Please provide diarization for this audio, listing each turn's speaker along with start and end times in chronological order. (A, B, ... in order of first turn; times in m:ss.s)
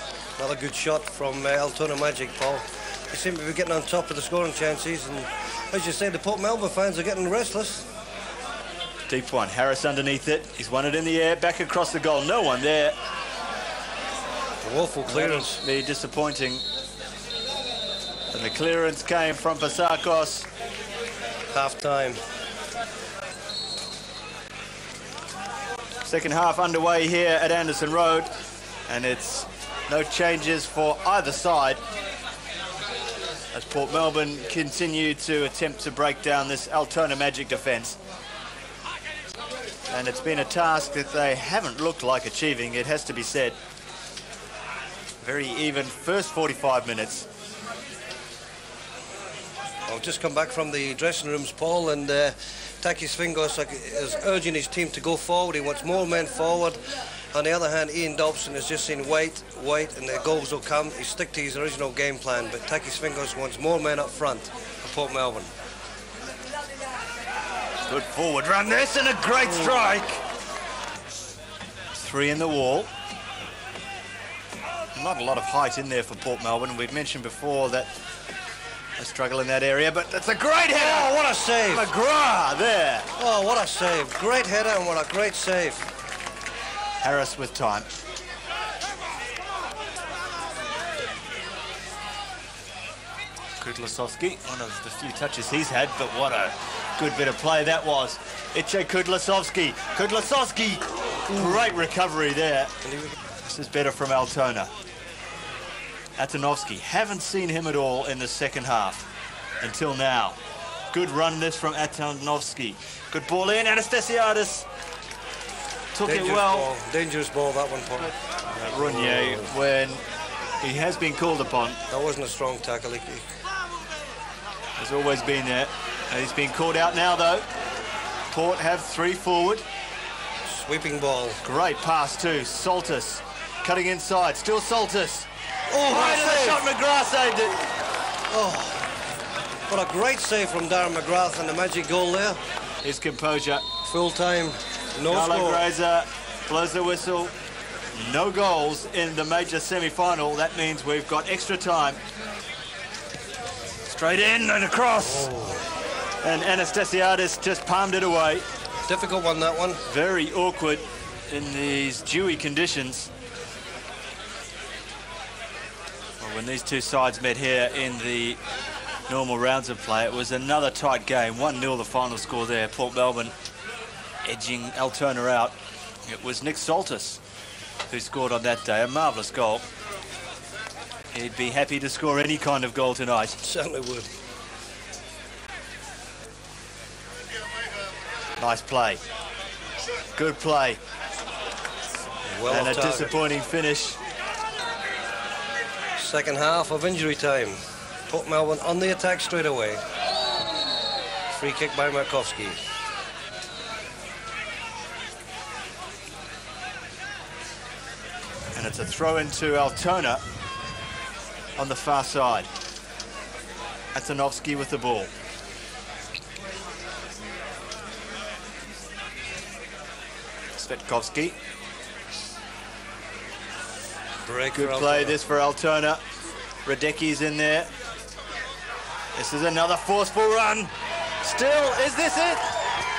0:00.4-0:07.8 A
0:09.1-0:13.0 B
0:14.7-0:15.4 A
0:15.0-0:16.6 B
0:18.3-0:20.5 B
0:21.6-0:22.2 A
0:26.0-0:28.3 B
0:28.9-0:31.8 B
0:33.5-0:38.0 B
0:39.9-0:43.6 B
0:45.2-0:47.3 B
0:49.9-0:56.8 A
0:57.3-1:05.5 A
1:07.9-1:10.2 B
1:11.9-1:12.9 B
1:15.0-1:17.9 B
1:19.0-1:23.1 B
1:20.9-1:21.8 A
1:23.2-1:25.8 A
1:27.0-1:27.9 B
1:33.6-1:42.7 B
1:43.4-1:44.7 B
1:46.2-1:49.0 B
1:49.6-1:50.4 B
1:50.9-1:54.7 B
1:56.0-1:56.7 B
1:56.1-1:57.9 A
1:58.0-2:00.0 B
2:00.6-2:01.8 B
2:01.9-2:03.2 A
2:04.8-2:07.4 B
2:08.3-2:09.6 B
2:10.5-2:11.4 A
2:11.4-2:15.3 B
2:15.8-2:16.6 A
2:15.8-2:17.6 B
2:18.3-2:18.7 A
2:19.7-2:22.4 A
2:22.8-2:23.6 B
2:23.9-2:24.6 A
2:25.1-2:27.3 B
2:28.0-2:32.0 B
2:33.9-2:35.3 B
2:35.1-2:35.6 A
2:36.2-2:38.4 B
2:38.9-2:39.8 A
2:39.9-2:43.1 B
2:46.2-2:48.4 B
2:49.1-2:53.3 B
2:54.2-2:57.2 B
2:57.9-2:59.6 B
3:01.1-3:03.4 B
3:03.5-3:04.0 A
3:08.4-3:09.0 B
3:10.2-3:10.8 B
3:12.4-3:13.0 A
3:12.4-3:14.0 B
3:16.0-3:17.6 A
3:18.1-3:19.8 A
3:21.3-3:22.6 A
3:28.5-3:30.2 B
3:31.6-3:32.5 B
3:33.9-3:35.1 B
3:40.6-3:41.4 B
3:44.3-3:45.1 A
3:44.5-3:46.0 B
3:46.6-3:47.7 B
3:49.1-3:50.7 B
3:51.2-3:52.4 B